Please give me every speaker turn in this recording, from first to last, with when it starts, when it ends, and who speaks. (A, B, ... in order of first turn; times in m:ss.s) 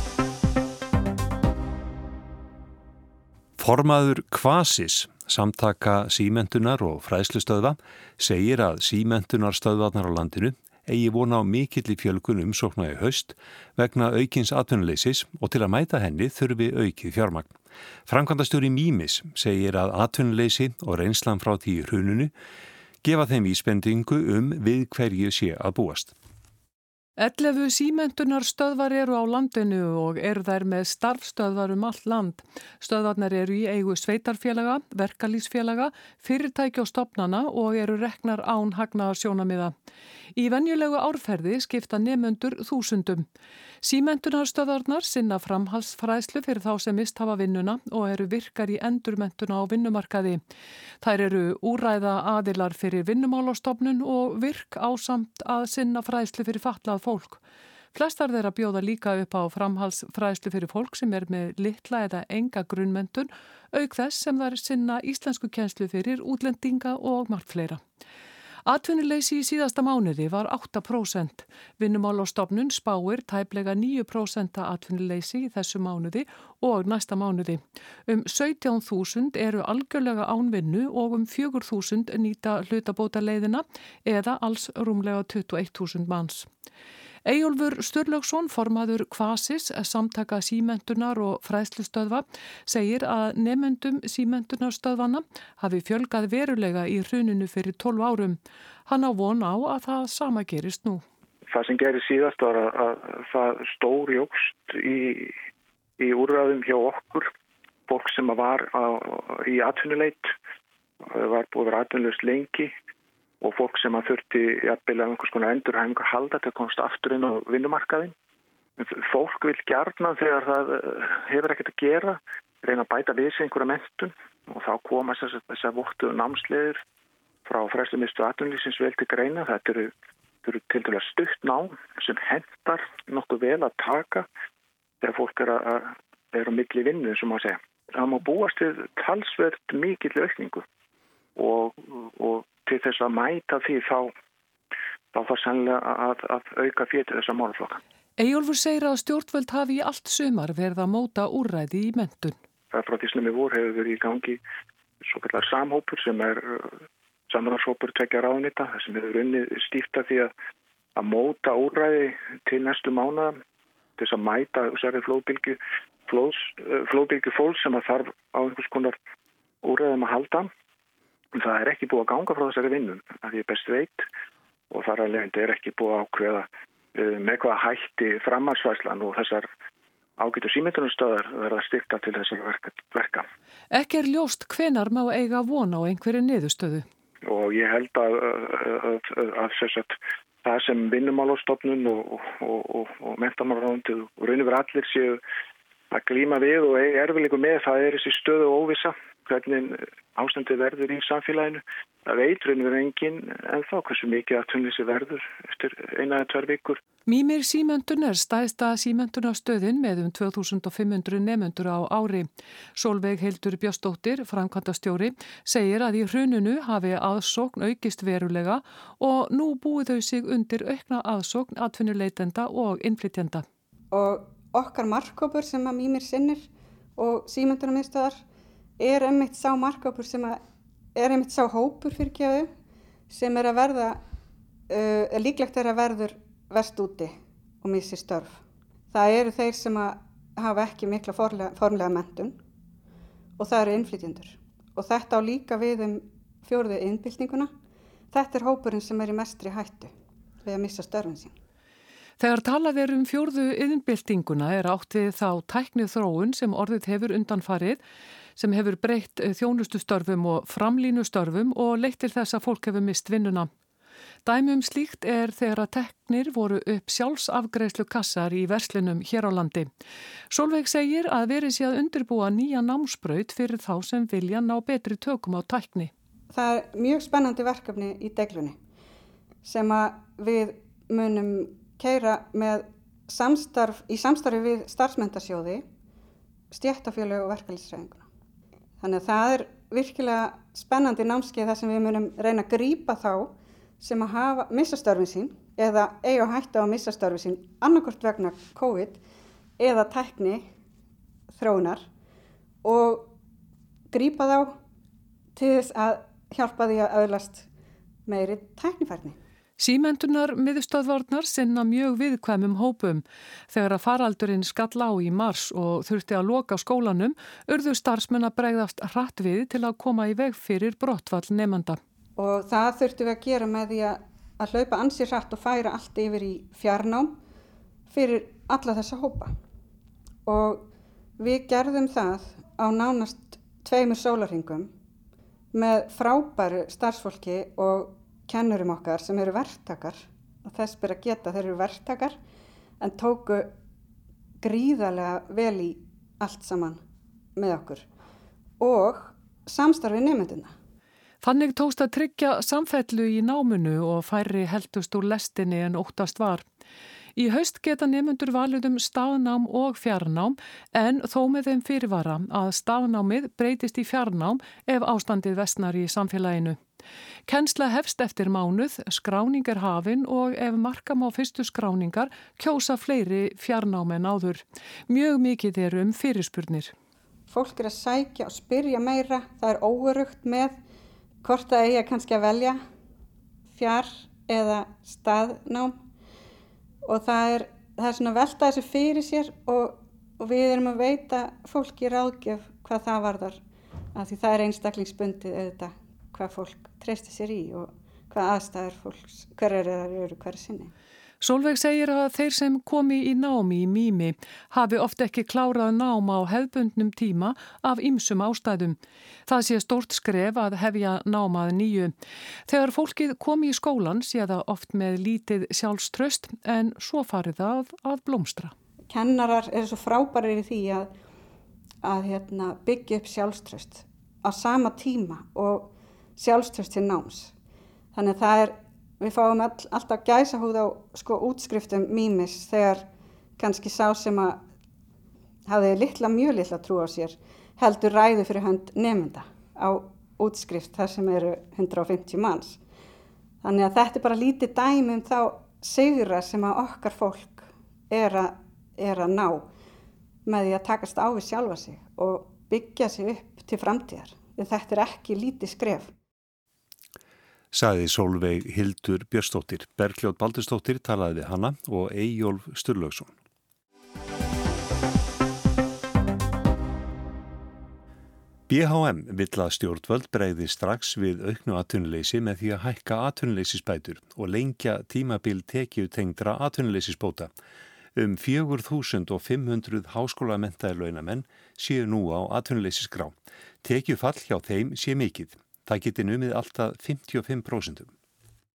0:03.6-0:17.5 A
0:18.1-0:22.3 A
0:23.0-0:26.1 A
0:27.2-0:39.7 B
0:40.3-0:43.2 B
0:43.8-0:50.4 B
0:51.0-0:57.4 B
0:57.9-1:07.8 B
1:08.6-1:26.5 B
1:27.2-1:41.0 B
1:41.5-1:45.3 C
1:46.0-1:47.3 C
1:47.9-1:50.3 C
1:51.1-1:52.7 C
1:53.4-1:58.1 C
1:58.8-2:06.8 C
2:07.4-2:09.9 C
2:10.4-2:14.3 C
2:15.0-2:20.6 C
2:21.4-2:24.1 C
2:25.1-2:27.8 C
2:28.2-2:32.4 B
2:32.7-2:34.4 C
2:35.0-2:36.8 C
2:37.3-2:40.3 C
2:41.0-2:43.4 C
2:44.0-2:49.0 C
2:49.6-2:50.5 C
2:51.3-2:54.0 C
2:54.7-2:59.5 C
3:00.2-3:03.2 C
3:03.7-3:06.8 B
3:07.2-3:15.2 C
3:15.9-3:26.8 C
3:27.1-3:43.4 B
3:43.9-3:48.2 D
3:48.8-3:50.4 D
3:51.0-3:52.5 D
3:53.1-3:54.0 D
3:54.7-4:02.4 D
4:03.4-4:07.5 D
4:08.1-4:11.3 D
4:12.2-4:17.8 B
4:18.4-4:23.5 B
4:24.2-4:29.7 B
4:30.3-4:35.9 B
4:36.3-4:38.6 D
4:39.4-4:45.6 D
4:46.5-4:48.0 D
4:48.8-4:59.0 D
4:59.6-5:00.4 D
5:01.3-5:01.8 D
5:02.6-5:03.1 D
5:03.9-5:04.5 D
5:05.4-5:07.5 D
5:08.1-5:09.2 D
5:09.6-5:21.8 B
5:22.2-5:27.2 D
5:27.9-5:29.3 D
5:30.2-5:30.7 D
5:31.2-5:34.7 D
5:35.5-5:42.2 D
5:42.8-5:43.5 D
5:44.4-5:46.8 D
5:47.4-5:47.9 D
5:48.6-5:50.5 D
5:51.2-5:56.4 B
5:57.2-6:06.6 B
6:07.3-6:16.7 B
6:17.3-6:20.6 D
6:21.2-6:22.6 D
6:23.5-6:25.8 D
6:26.8-6:33.4 D
6:33.9-6:40.7 D
6:41.2-6:51.9 B
6:52.5-6:58.5 B
6:58.9-7:00.9 D
7:01.8-7:07.3 D
7:07.9-7:12.8 D
7:13.4-7:14.4 D
7:15.5-7:22.6 D
7:23.4-7:29.5 D
7:30.2-7:35.9 D
7:37.5-7:43.1 A
7:48.5-7:57.3 A
7:58.0-8:07.9 A